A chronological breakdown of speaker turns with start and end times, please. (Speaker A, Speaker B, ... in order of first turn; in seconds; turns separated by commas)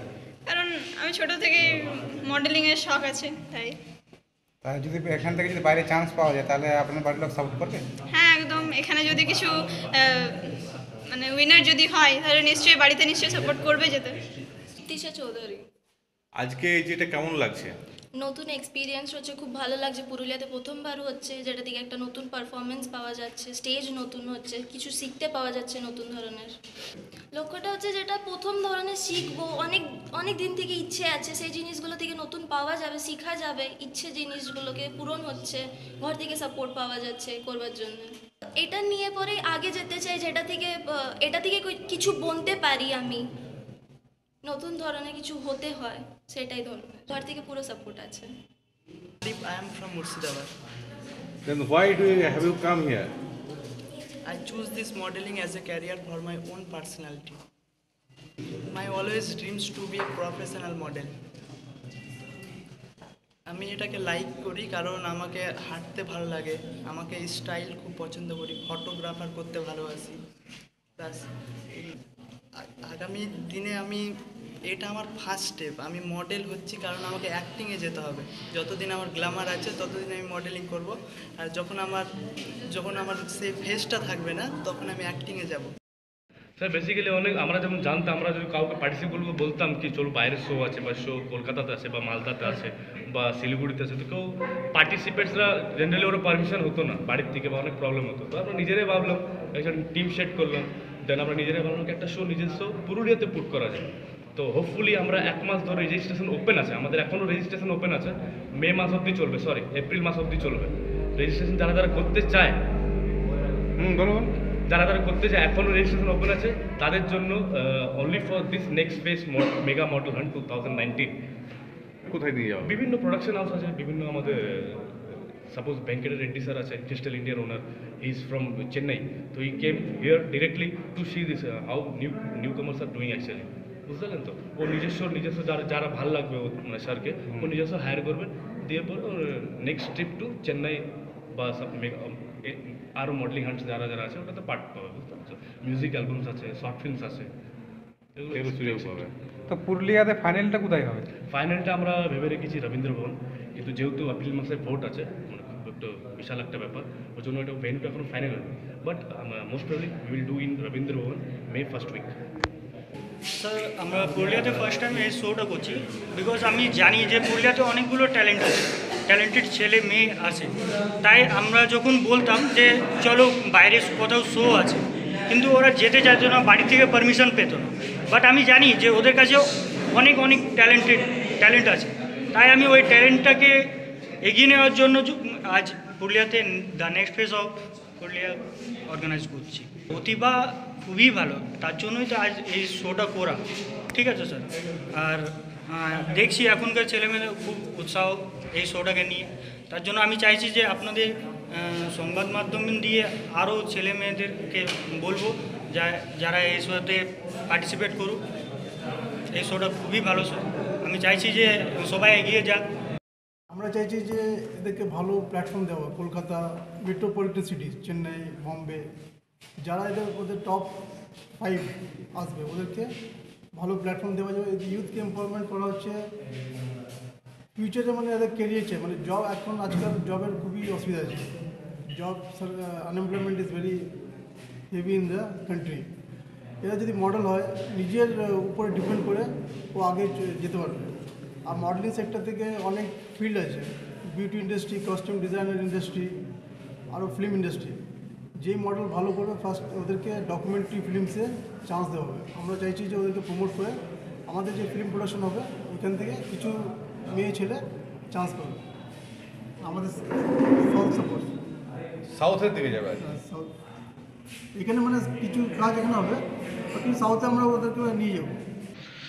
Speaker A: 0.5-3.8, Speaker B: 4.6-7.8, Speaker A: 8.1-10.5, Speaker A: 11.1-14.2, Speaker C: 14.8-15.6, Speaker D: 16.4-17.7, Speaker C: 18.2-26.5, Speaker C: 27.3-43.2, Speaker C: 44.4-48.3, Speaker E: 49.2-50.5, Speaker D: 51.5-53.1, Speaker E: 54.2-57.4, Speaker E: 58.7-61.1, Speaker E: 63.5-70.2, Speaker E: 72.9-74.0, Speaker E: 74.7-82.0, Speaker E: 82.7-85.7, Speaker F: 86.6-112.6, Speaker D: 113.8-114.3, Speaker F: 114.7-121.1, Speaker D: 122.1-122.7, Speaker F: 122.6-124.9, Speaker F: 125.5-147.3, Speaker F: 148.2-149.1, Speaker D: 148.3-149.1, Speaker B: 149.5-151.0, Speaker F: 151.3-162.1, Speaker G: 163.3-170.5, Speaker G: 171.0-183.6, Speaker G: 184.2-193.4, Speaker G: 193.9-208.2, Speaker G: 209.3-212.6, Speaker H: 213.5-218.8, Speaker H: 219.6-220.8, Speaker H: 221.4-222.9, Speaker H: 223.5-226.1, Speaker H: 227.6-231.2, Speaker H: 231.9-233.9, Speaker H: 234.7-235.9, Speaker H: 236.6-240.8, Speaker H: 241.4-246.2, Speaker H: 246.9-247.8, Speaker H: 248.4-258.6, Speaker H: 259.6-261.4, Speaker D: 262.1-263.0, Speaker H: 263.0-263.5, Speaker H: 264.5-266.2, Speaker H: 266.7-268.4